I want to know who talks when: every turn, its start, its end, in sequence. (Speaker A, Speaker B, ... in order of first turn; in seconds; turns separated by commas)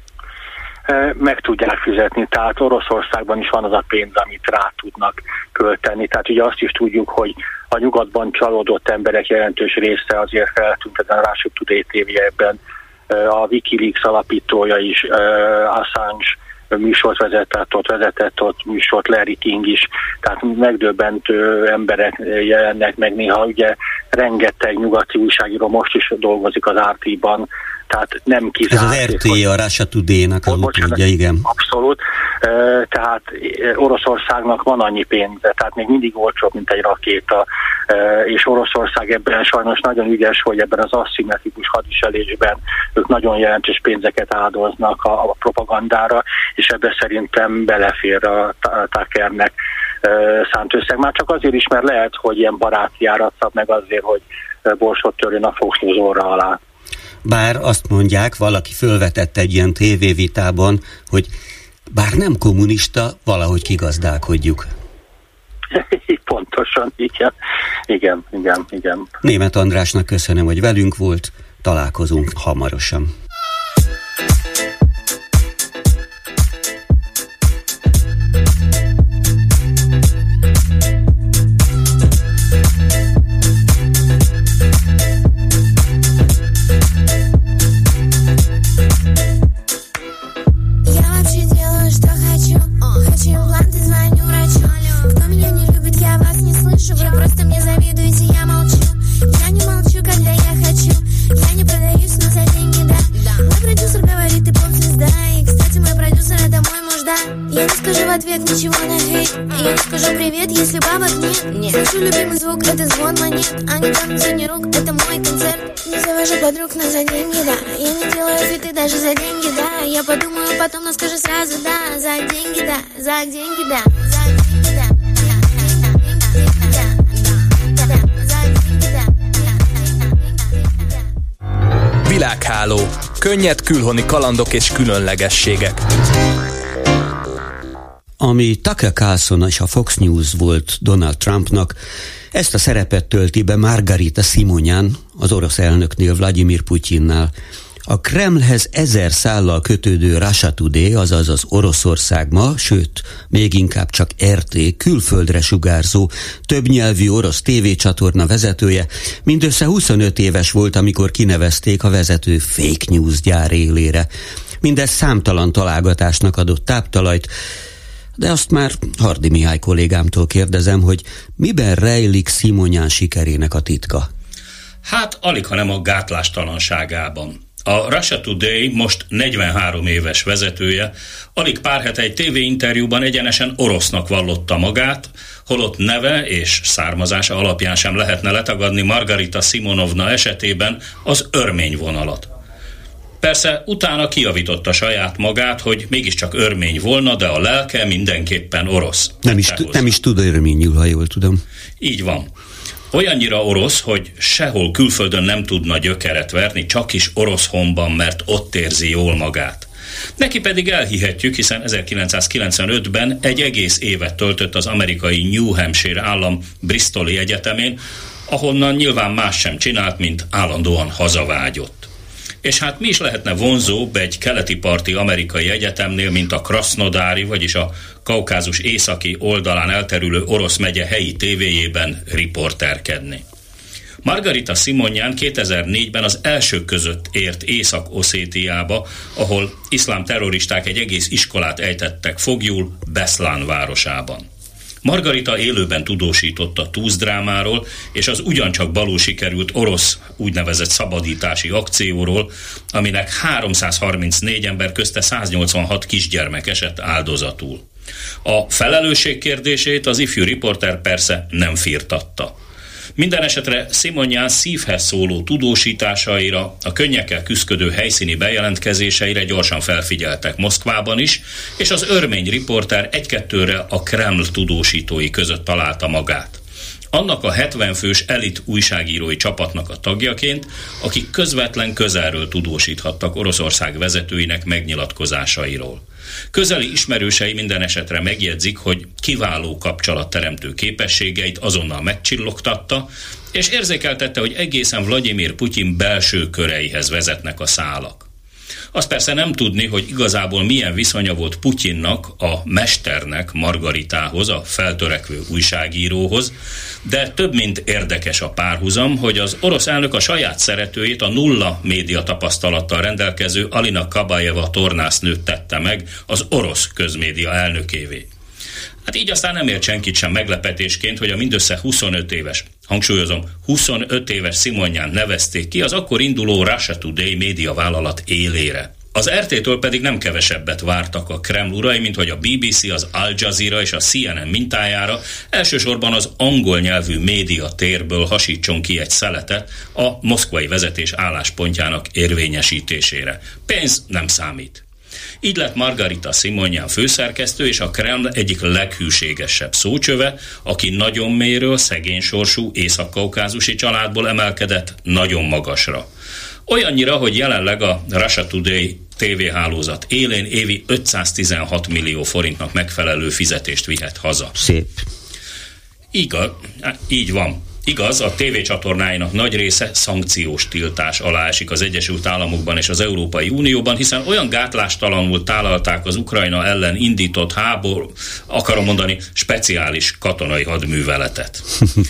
Speaker A: 0.9-29.4, Speaker B: 28.7-31.5, Speaker A: 30.5-56.6, Speaker B: 57.2-61.3, Speaker B: 61.9-64.7, Speaker A: 65.7-67.3, Speaker A: 67.9-69.1, Speaker B: 69.2-73.1, Speaker C: 90.8-131.0, Speaker D: 132.1-135.8, Speaker B: 138.2-141.8, Speaker B: 142.3-147.3, Speaker B: 147.9-164.1, Speaker B: 164.6-167.3, Speaker B: 168.2-174.1, Speaker E: 174.8-192.3, Speaker E: 193.2-199.9, Speaker B: 199.2-201.4, Speaker E: 201.8-202.3, Speaker E: 202.9-221.9, Speaker E: 222.4-233.2, Speaker E: 234.0-244.2, Speaker E: 244.8-257.6, Speaker E: 258.2-262.3, Speaker E: 263.0-276.4, Speaker E: 276.9-285.8, Speaker E: 286.3-298.1, Speaker E: 298.7-306.3, Speaker E: 306.8-318.1, Speaker E: 318.9-344.6, Speaker E: 345.2-355.9, Speaker E: 356.5-364.4, Speaker B: 364.4-364.9, Speaker E: 365.9-381.5